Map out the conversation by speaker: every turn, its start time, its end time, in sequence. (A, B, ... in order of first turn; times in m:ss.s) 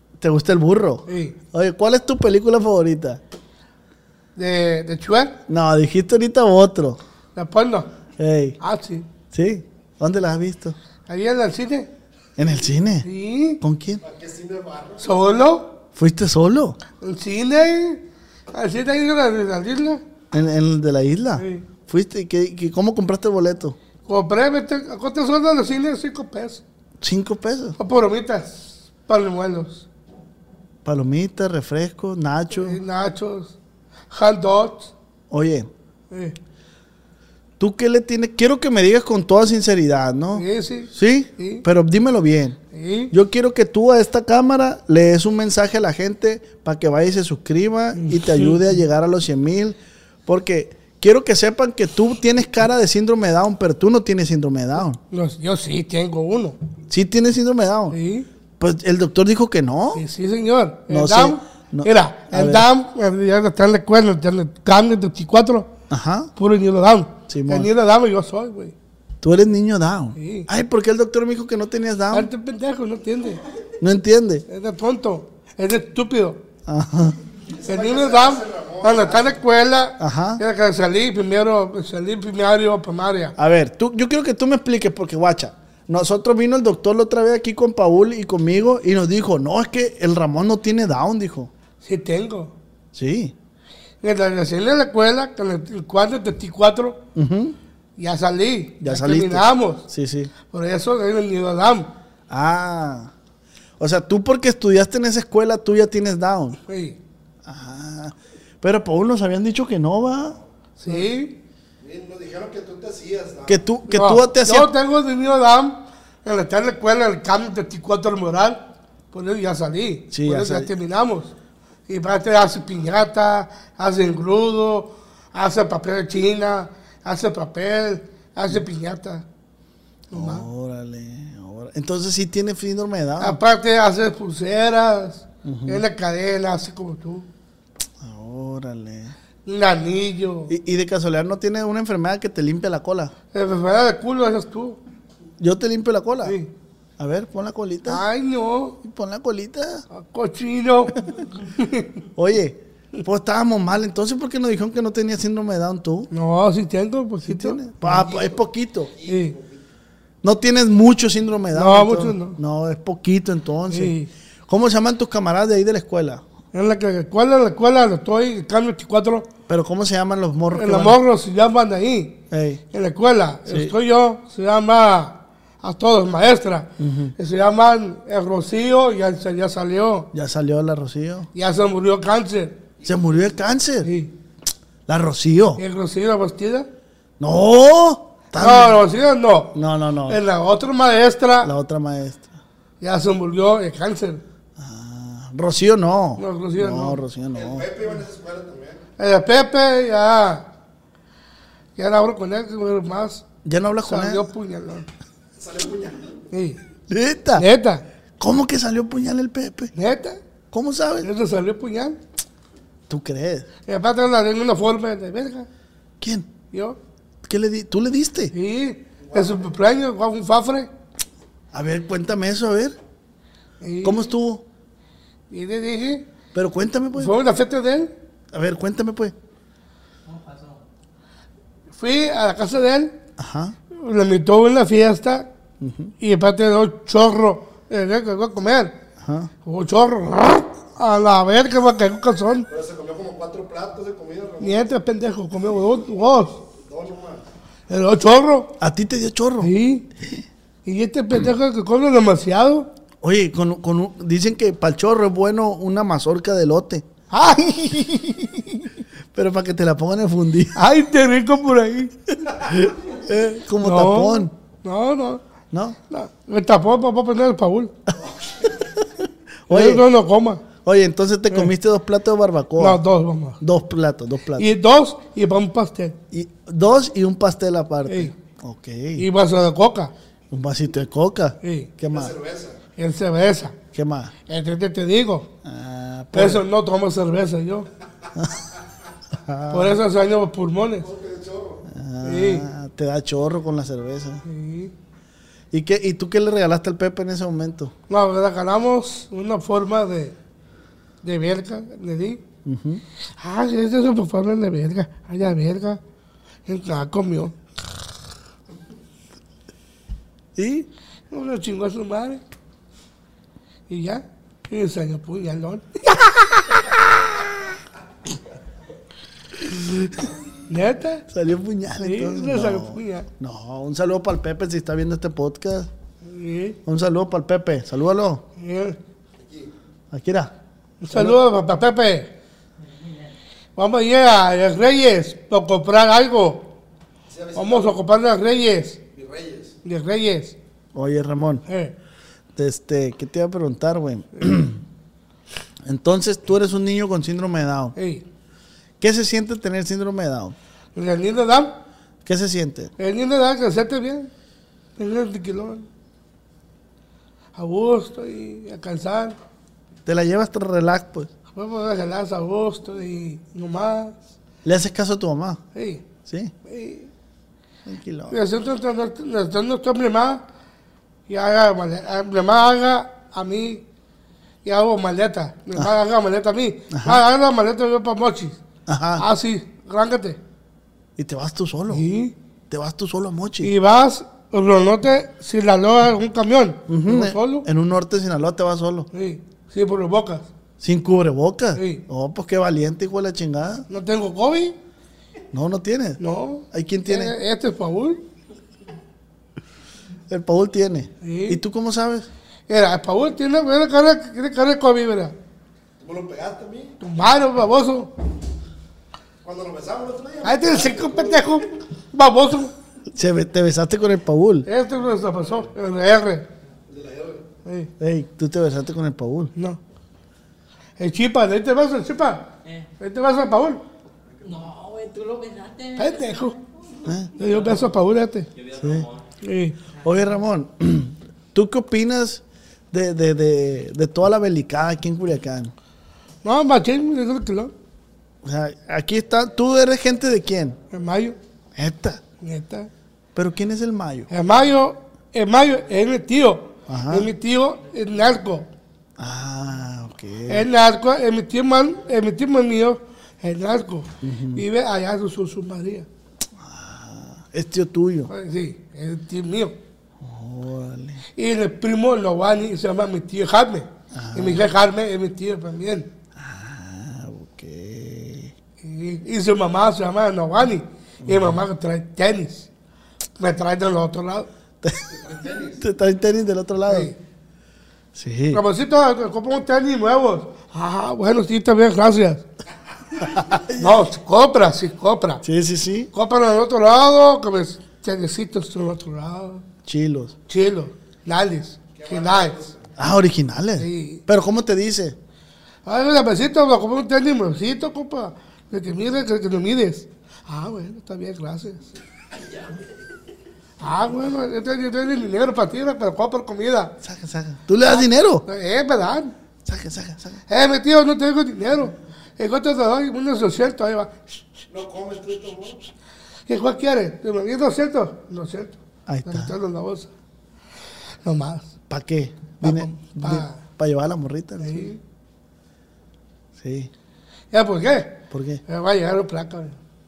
0:00.2-0:03.2 A
0:01.1-0:01.4 B
0:04.4-0:05.3 B
0:05.5-0:07.0 A
0:07.4-0:07.9 B
0:08.2-0:08.6 A
0:08.6-0:09.0 B
0:09.3-0:10.8 A
0:11.1-0:11.9 B
0:12.4-0:13.1 A
0:13.0-0:13.6 B
0:13.6-0:14.0 A
0:14.0-0:15.1 C
0:15.0-0:15.7 B
0:16.0-0:16.8 A
0:17.0-0:20.0 B
0:20.3-0:23.8 A
0:21.4-0:21.6 B
0:24.1-0:26.6 B
0:27.0-0:27.8 A
0:27.8-0:29.8 B
0:30.8-0:32.8 A
0:32.6-0:33.5 B
0:34.1-0:34.9 B
0:35.3-0:35.7 A
0:36.1-0:36.4 B
0:37.6-0:42.6 A
0:40.3-0:41.6 B
0:42.7-0:43.1 B
0:43.1-0:55.0 A
0:47.9-0:48.6 B
0:55.1-0:56.6 B
0:56.9-0:58.0 A
0:57.9-0:58.3 B
0:58.6-1:00.0 A
0:59.9-1:05.7 B
1:00.9-1:02.7 A
1:05.9-1:06.3 A
1:06.4-1:08.7 B
1:07.3-1:07.7 A
1:09.2-1:12.3 A
1:10.2-1:10.5 B
1:12.1-1:13.4 B
1:13.8-1:14.4 A
1:14.5-1:16.4 B
1:16.6-1:17.2 A
1:17.5-1:19.4 C
1:17.7-1:23.3 B
1:20.0-1:20.4 A
1:23.4-1:31.5 A
1:31.8-1:32.5 B
1:32.9-1:33.3 A
1:34.0-1:37.0 B
1:37.1-1:37.6 A
1:38.0-1:39.9 B
1:38.8-1:40.3 A
1:40.5-1:41.9 B
1:42.3-1:43.1 A
1:43.8-1:46.6 A
1:46.7-1:47.0 B
1:47.4-1:50.4 A
1:50.8-1:51.4 B
1:51.8-1:53.6 C
1:53.5-1:54.7 A
1:53.9-2:01.3 B
2:00.1-2:00.7 A
2:01.9-2:09.2 B
2:10.1-2:10.4 B
2:10.1-2:13.4 A
2:13.2-2:17.3 B
2:15.4-2:15.8 A
2:18.0-2:19.1 A
2:19.4-2:20.5 B
2:20.5-2:23.1 A
2:23.3-2:24.8 B
2:25.4-2:26.4 A
2:26.2-2:26.5 B
2:27.0-2:28.0 A
2:27.9-2:28.8 B
2:28.8-2:29.8 A
2:29.9-2:31.9 B
2:32.2-2:36.1 A
2:36.1-2:38.2 B
2:37.2-2:38.9 A
2:38.9-2:39.6 C
2:39.1-2:39.3 B
2:40.2-2:43.9 A
2:41.5-2:42.4 B
2:43.7-2:44.1 B
2:44.5-2:46.2 A
2:46.5-2:49.2 B
2:49.5-2:51.0 A
2:50.5-2:52.2 B
2:52.3-2:52.6 A
2:52.7-3:00.1 B
2:53.5-2:53.8 A
2:56.8-2:57.1 A
3:00.1-3:01.3 A
3:01.3-3:02.6 B
3:02.8-3:03.9 A
3:03.8-3:04.1 B
3:04.9-3:05.6 A
3:05.6-3:06.7 B
3:07.2-3:08.8 A
3:08.3-3:09.5 B
3:09.5-3:10.2 A
3:10.1-3:11.5 B
3:11.4-3:12.3 A
3:12.8-3:14.2 B
3:14.6-3:17.7 A
3:16.2-3:17.0 B
3:17.3-3:18.8 C
3:19.0-3:20.4 B
3:21.8-3:23.2 B
3:23.4-3:24.2 A
3:23.8-3:24.9 B
3:25.4-3:26.2 C
3:26.3-3:26.6 B
3:26.9-3:27.4 A
3:27.4-3:27.8 B
3:28.2-3:29.7 A
3:29.8-3:30.2 B
3:30.5-3:31.1 A
3:31.0-3:32.0 B
3:32.9-3:33.5 A
3:33.7-3:35.5 B
3:36.0-3:36.3 A
3:36.5-3:36.8 B
3:37.2-3:38.3 A
3:38.3-3:40.7 B
3:39.0-3:39.5 C
3:41.5-3:42.8 A
3:43.6-3:44.1 B
3:43.8-3:44.4 A
3:45.3-3:46.0 B
3:46.3-3:47.1 A
3:47.0-3:47.9 B
3:48.3-3:49.1 A
3:51.7-3:52.9 B
3:53.2-3:53.6 A
3:53.7-3:55.3 B
3:55.6-3:55.9 A
3:56.0-3:58.7 B
3:59.0-3:59.3 A
3:59.4-4:02.5 B
4:02.5-4:04.7 C
4:04.4-4:06.3 B
4:06.4-4:07.2 C
4:07.7-4:08.5 B
4:08.6-4:10.2 A
4:09.4-4:09.9 B
4:10.6-4:12.7 B
4:13.0-4:16.8 A
4:17.1-4:18.4 B
4:19.1-4:20.6 A
4:20.5-4:21.9 B
4:22.2-4:24.3 A
4:23.6-4:25.2 B
4:25.9-4:27.7 B
4:29.5-4:29.8 A
4:29.5-4:30.4 B
4:30.6-4:32.8 A
4:32.6-4:33.4 B
4:33.4-4:34.5 A
4:34.4-4:36.0 B
4:36.1-4:39.0 A
4:37.9-4:38.1 B
4:39.0-4:39.9 B
4:40.3-4:42.2 A
4:41.4-4:41.7 B
4:41.9-4:42.6 C
4:42.8-4:43.5 B
4:43.7-4:44.1 A
4:44.3-4:45.3 B
4:45.4-4:46.4 A
4:46.1-4:47.7 B
4:49.1-4:49.8 A
4:49.5-4:50.9 B
4:50.8-4:51.6 C
4:51.7-4:54.2 A
4:52.0-4:52.5 B
4:54.2-4:54.7 B
4:55.5-4:57.7 A
4:57.9-5:00.1 B
5:01.0-5:02.2 B
5:02.4-5:02.8 A
5:03.2-5:05.8 B
5:06.5-5:07.3 B
5:10.4-5:10.7 A
5:11.1-5:12.2 B
5:13.7-5:16.7 B
5:19.4-5:20.0 A
5:20.5-5:21.0 B
5:21.1-5:25.7 A
5:21.8-5:23.1 B
5:26.0-5:26.6 B
5:26.6-5:28.2 A
5:28.4-5:28.8 B
5:29.2-5:29.5 C
5:29.9-5:30.3 A
5:30.8-5:32.1 B
5:30.9-5:31.2 A
5:32.7-5:33.0 D
5:33.6-5:36.5 B
5:37.1-5:37.8 C
5:37.4-5:38.8 B
5:38.9-5:39.6 C
5:39.6-5:40.4 B
5:40.7-5:41.4 A
5:41.5-5:41.8 B
5:42.4-5:44.6 A
5:45.6-5:47.8 A
5:47.8-5:48.0 B
5:48.8-5:50.4 A
5:50.8-5:51.5 B
5:52.0-5:52.7 A
5:52.8-5:54.1 B
5:54.8-5:55.6 B
5:57.4-5:59.2 B
5:59.9-6:01.1 A
6:01.3-6:04.0 B
6:04.4-6:05.4 A
6:05.5-6:05.8 B
6:06.0-6:06.3 A
6:06.4-6:06.9 B
6:07.6-6:08.2 A
6:08.1-6:10.2 B
6:11.1-6:13.6 B
6:14.4-6:18.4 B
6:16.7-6:17.0 A
6:18.7-6:19.0 A
6:19.0-6:20.2 B
6:21.0-6:21.8 A
6:21.7-6:22.1 B
6:22.5-6:23.5 A
6:23.4-6:27.4 B
6:26.7-6:28.9 A
6:28.9-6:30.3 B
6:30.6-6:33.6 A
6:31.6-6:31.8 B
6:33.7-6:34.6 B
6:35.3-6:37.1 A
6:36.0-6:38.0 B
6:40.1-6:42.1 A
6:41.0-6:41.4 B
6:42.5-6:45.1 B
6:45.8-6:46.8 C
6:46.8-6:47.9 B
6:49.2-6:51.4 C
6:50.2-6:52.5 B
6:52.9-6:54.5 A
6:54.4-6:56.2 B
6:56.7-6:57.3 C
6:57.8-6:59.3 A
7:00.8-7:02.3 B
7:02.8-7:03.6 B
7:04.2-7:06.3 D
7:05.8-7:06.4 B
7:07.2-7:08.3 B
7:07.2-7:07.6 D
7:08.4-7:09.0 D
7:08.6-7:08.9 A
7:09.2-7:09.6 B
7:09.8-7:15.5 A
7:16.2-7:17.5 B
7:18.2-7:20.6 A
7:20.7-7:21.2 B
7:21.6-7:22.0 A
7:22.2-7:22.7 B
7:23.1-7:24.1 A
7:24.1-7:28.4 B
7:26.7-7:27.1 A
7:29.0-7:30.5 A
7:30.3-7:35.9 B
7:34.0-7:34.4 A
7:36.4-7:38.1 A
7:38.1-7:39.6 B
7:40.0-7:41.0 A
7:41.2-7:45.9 B
7:43.9-7:44.4 A
7:46.2-7:48.3 A
7:48.6-7:52.5 B
7:51.0-7:51.4 A
7:53.2-7:54.3 B
7:54.9-7:55.6 C
7:55.6-7:56.9 A
7:56.7-7:57.0 B
7:57.9-7:58.4 A
7:58.3-8:02.2 B
8:03.0-8:03.8 A
8:03.6-8:05.2 B
8:05.2-8:05.9 A
8:05.9-8:09.4 B
8:09.6-8:10.1 A
8:10.3-8:12.4 B
8:11.8-8:12.7 C
8:12.8-8:15.0 A
8:13.6-8:14.0 B
8:15.6-8:21.7 B
8:23.6-8:26.7 B
8:26.8-8:28.2 A
8:27.6-8:29.1 B
8:29.4-8:30.2 A
8:30.3-8:33.9 B
8:34.5-8:35.7 C
8:36.3-8:39.9 B
8:38.9-8:39.4 A
8:41.0-8:41.5 B
8:41.7-8:44.7 A
8:42.4-8:43.4 B
8:44.4-8:44.8 B
8:46.4-8:46.7 A
8:47.3-8:49.6 B
8:48.1-8:48.4 A